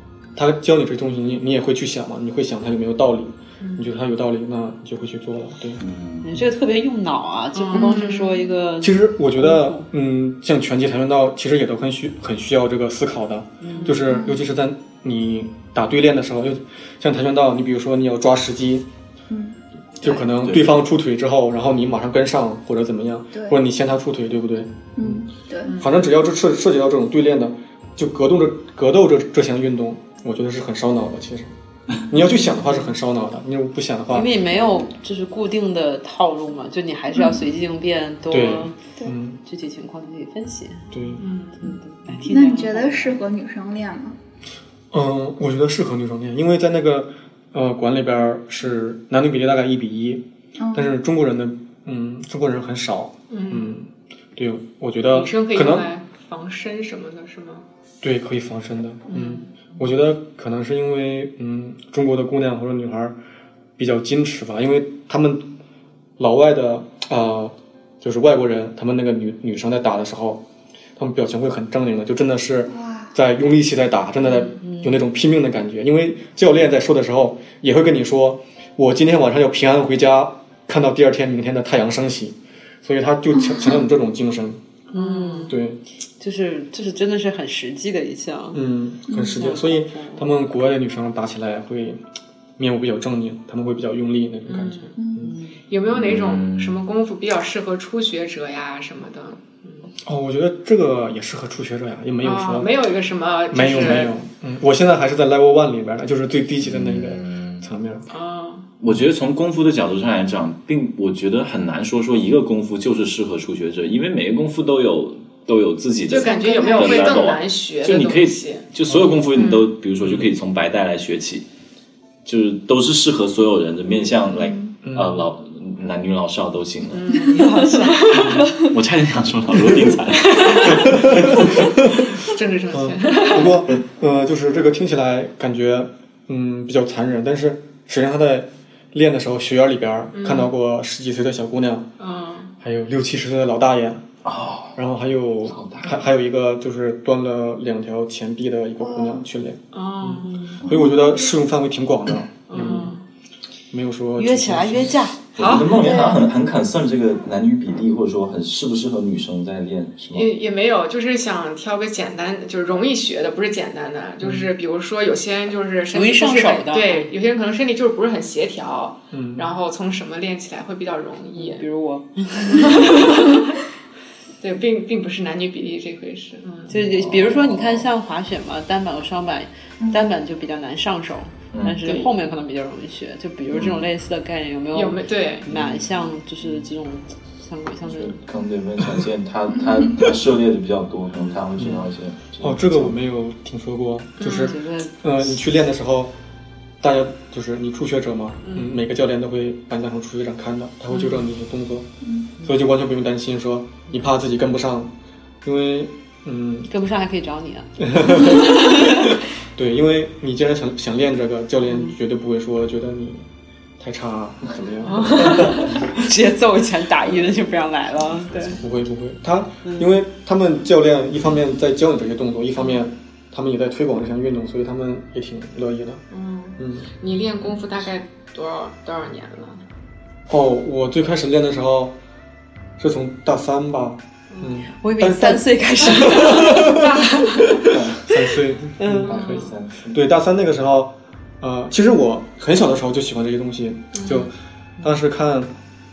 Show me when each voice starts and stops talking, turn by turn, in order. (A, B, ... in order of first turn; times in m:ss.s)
0:00.4-0:05.8 A
0:03.6-0:03.9 B
0:05.8-0:06.3 C
0:06.2-0:09.9 D
0:07.5-0:08.5 B
0:07.7-0:08.1 E
0:08.8-0:18.8 A
0:13.6-0:14.0 D
0:13.8-0:14.0 B
0:14.1-0:14.4 E
0:19.3-0:19.6 E
0:20.0-0:25.2 A
0:20.1-0:20.8 C
0:23.3-0:23.6 E
0:25.0-0:25.7 E
0:25.6-0:26.0 B
0:25.8-0:31.5 A
0:32.0-0:34.3 A
0:34.1-0:38.8 D
0:34.5-0:34.8 E
0:38.3-0:39.4 A
0:39.4-0:40.9 D
0:40.9-0:41.2 A
0:41.2-0:41.8 B
0:41.6-0:43.2 D
0:42.3-0:44.1 E
0:44.9-0:55.9 A
0:50.6-0:51.0 E
0:53.3-0:53.7 B
0:55.1-0:57.6 B
0:58.0-1:03.1 A
0:59.1-0:59.7 B
1:03.8-1:05.5 A
1:06.2-1:10.4 A
1:11.0-1:24.6 A
1:12.7-1:13.1 E
1:14.6-1:14.9 D
1:23.3-1:23.8 E
1:24.9-1:25.6 B
1:24.9-1:25.5 D
1:25.5-1:25.8 A
1:26.2-1:28.6 D
1:28.5-1:32.0 A
1:29.1-1:29.6 E
1:29.4-1:30.3 D
1:32.6-1:35.3 A
1:34.4-1:34.9 B
1:35.0-1:35.3 E
1:35.2-1:35.6 D
1:35.7-1:39.9 B
1:35.9-1:36.8 C
1:40.0-1:42.7 A
1:42.2-1:44.2 B
1:43.5-1:48.1 A
1:46.6-1:47.7 C
1:48.1-1:48.6 B
1:48.8-2:01.4 C
1:56.1-1:58.7 B
1:56.1-1:57.3 E
1:58.9-1:59.2 A
1:59.3-1:59.7 B
2:02.2-2:07.2 C
2:04.4-2:04.7 E
2:04.8-2:05.3 A
2:06.9-2:08.6 B
2:07.2-2:08.4 D
2:08.1-2:08.5 A
2:08.6-2:11.2 C
2:10.2-2:13.7 B
2:10.6-2:12.1 A
2:12.7-2:21.9 A
2:20.1-2:20.5 B
2:22.0-2:22.5 B
2:22.6-2:24.0 A
2:24.2-2:24.8 C
2:24.7-2:32.9 A
2:25.5-2:26.0 C
2:28.8-2:29.2 E
2:29.7-2:30.6 B
2:30.3-2:30.6 D
2:30.7-2:31.3 E
2:32.5-2:33.0 B
2:33.7-2:35.0 A
2:34.2-2:35.2 D
2:35.4-2:40.3 C
2:35.4-2:36.2 B
2:35.8-2:36.2 E
2:40.1-2:51.6 B
2:44.2-2:44.5 A
2:45.9-2:47.1 D
2:49.1-2:49.5 A
2:51.4-2:53.5 D
2:52.5-2:53.6 B
2:54.4-2:56.7 B
2:56.7-3:08.2 D
2:56.7-2:57.9 C
2:59.8-3:00.1 E
3:01.5-3:01.8 C
3:01.8-3:02.1 B
3:03.5-3:03.8 C
3:04.7-3:05.5 B
3:05.5-3:05.9 C
3:07.9-3:12.9 C
3:11.6-3:11.8 A
3:12.4-3:16.1 A
3:14.2-3:14.6 B
3:14.3-3:15.0 D
3:16.8-3:21.9 A
3:18.4-3:18.8 B
3:20.9-3:21.2 B
3:22.0-3:22.3 E
3:22.4-3:24.9 A
3:25.4-3:26.7 A
3:26.7-3:29.2 D
3:27.8-3:33.2 A
3:33.8-3:35.9 A
3:34.9-3:38.6 D
3:38.5-3:46.0 A
3:39.6-3:40.0 D
3:46.1-3:49.6 B
3:46.6-3:46.9 A
3:50.3-3:51.9 A
3:52.8-3:57.0 A
3:54.8-3:56.9 D
3:56.0-3:57.7 B
3:57.6-3:59.2 A
3:57.7-3:58.0 C
3:58.8-3:59.5 D
3:59.0-4:00.0 C
3:59.1-3:59.5 B
3:59.9-4:05.5 A
4:03.9-4:04.3 B